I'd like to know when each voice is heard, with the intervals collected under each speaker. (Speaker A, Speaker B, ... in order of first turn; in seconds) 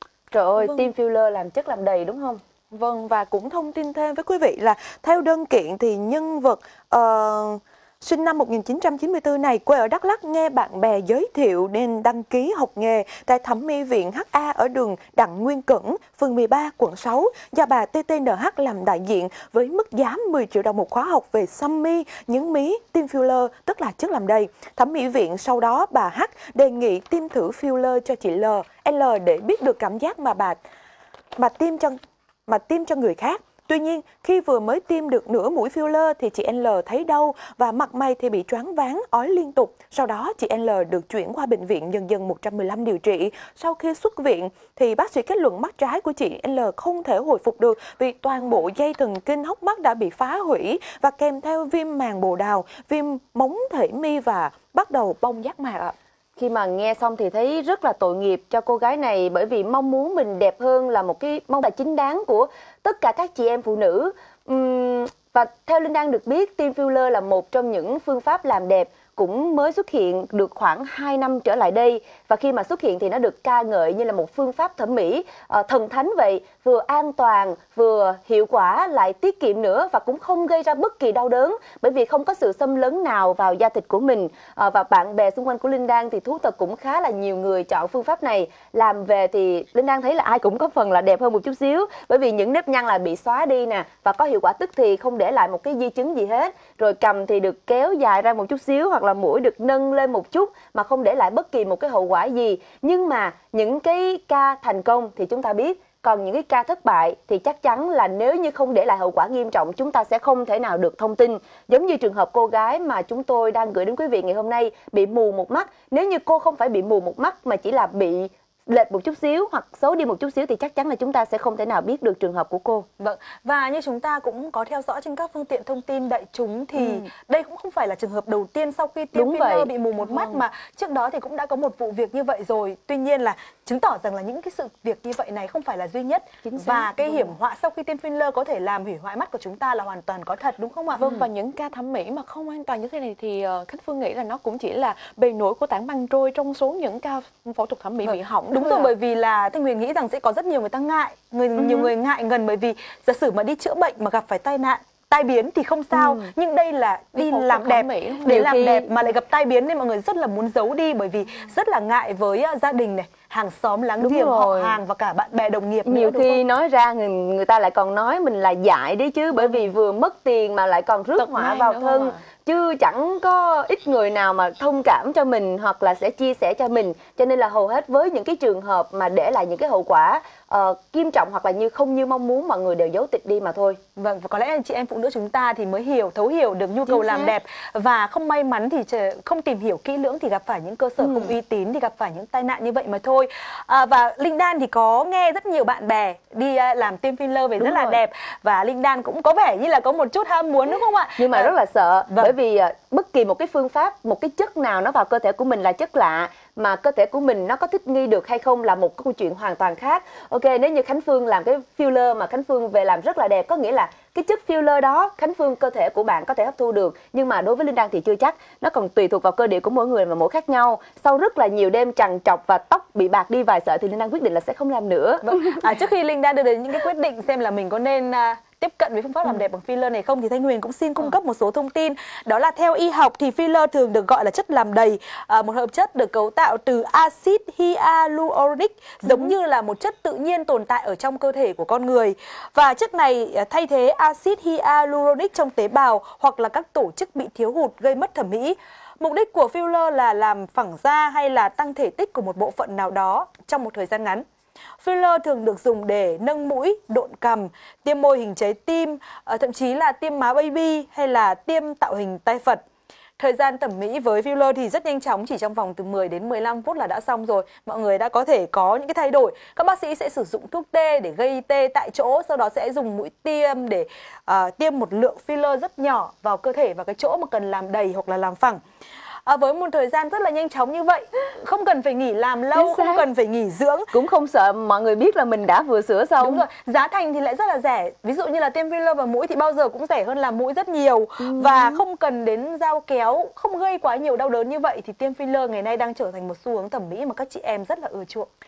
Speaker A: 0.3-2.4, 56.4-122.9, 126.8-127.0, 129.1-129.7, 136.4-137.3, 155.9-156.3, 158.3-158.9, 164.0-164.8, 165.8-183.8, 186.9-187.3, 191.0-191.3, 201.2-225.6, 239.0-239.3, 282.5-283.1, 283.9-286.4, 291.2-291.8
Speaker B: 2.7-30.6, 31.4-31.9, 32.5-55.9, 130.0-130.4, 141.0-148.9, 157.2-158.5, 171.2-172.2
Speaker C: 123.0-141.2, 148.0-166.4, 169.4-169.6, 183.9-201.5, 225.2-254.2, 254.8-262.6, 263.2-278.6, 279.2-283.9, 286.2-298.3